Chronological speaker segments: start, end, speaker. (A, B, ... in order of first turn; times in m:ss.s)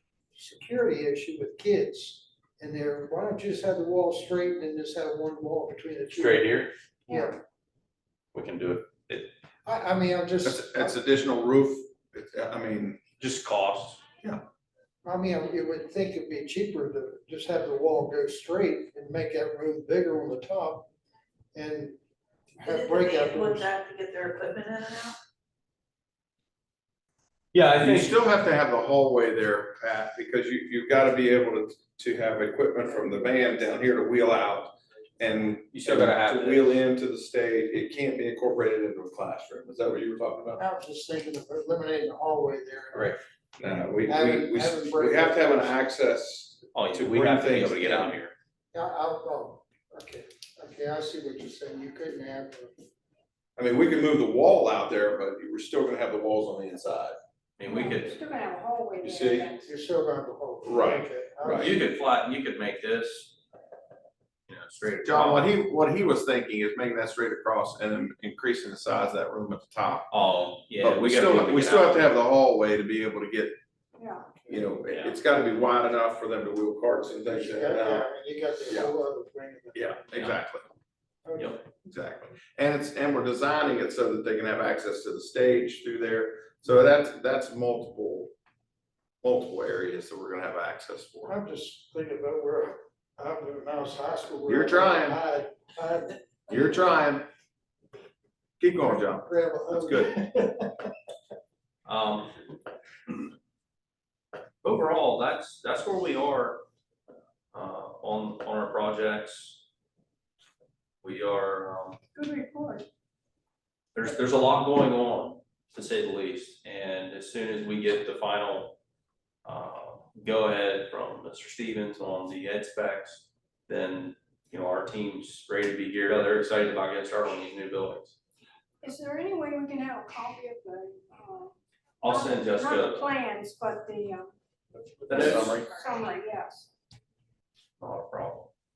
0:00.3-0:07.4 A
0:06.2-0:06.7 B
0:08.3-0:09.3 B
0:09.6-0:11.0 A
0:10.4-0:13.0 C
0:13.2-0:14.0 B
0:15.0-0:20.9 A
0:21.5-0:22.0 A
0:22.6-0:23.7 A
0:22.6-0:25.2 D
0:27.5-0:28.2 B
0:27.8-0:40.6 C
0:32.9-0:34.1 A
0:35.7-0:36.7 B
0:40.6-0:43.2 A
0:43.6-0:48.2 C
0:44.0-0:45.8 A
0:46.7-0:48.3 B
0:48.7-0:52.7 A
0:53.6-0:57.2 C
0:57.6-0:58.1 B
0:57.6-0:59.7 E
0:59.0-0:59.5 C
0:59.6-1:01.8 A
1:00.6-1:01.7 C
1:01.5-1:03.3 B
1:04.5-1:05.5 B
1:05.0-1:10.1 C
1:10.1-1:12.1 B
1:10.8-1:13.5 C
1:14.0-1:14.3 E
1:14.4-1:14.7 A
1:14.5-1:18.0 C
1:14.9-1:15.2 B
1:17.3-1:20.0 A
1:18.7-1:18.9 C
1:19.7-1:20.6 C
1:21.2-1:21.6 A
1:21.8-1:28.3 C
1:29.2-1:31.3 C
1:31.2-1:36.8 A
1:34.5-1:35.2 C
1:36.5-1:37.2 C
1:38.6-1:40.1 C
1:38.8-1:40.9 A
1:41.8-1:42.3 B
1:44.6-1:46.6 B
1:47.5-1:49.6 B
1:51.0-1:52.0 B
1:52.1-1:52.9 E
1:53.9-1:58.8 B
1:59.4-2:08.2 B
2:08.8-2:14.3 E
2:12.0-2:13.1 B
2:15.1-2:15.7 B
2:15.1-2:15.7 C
2:15.1-2:16.7 E
2:17.8-2:18.5 B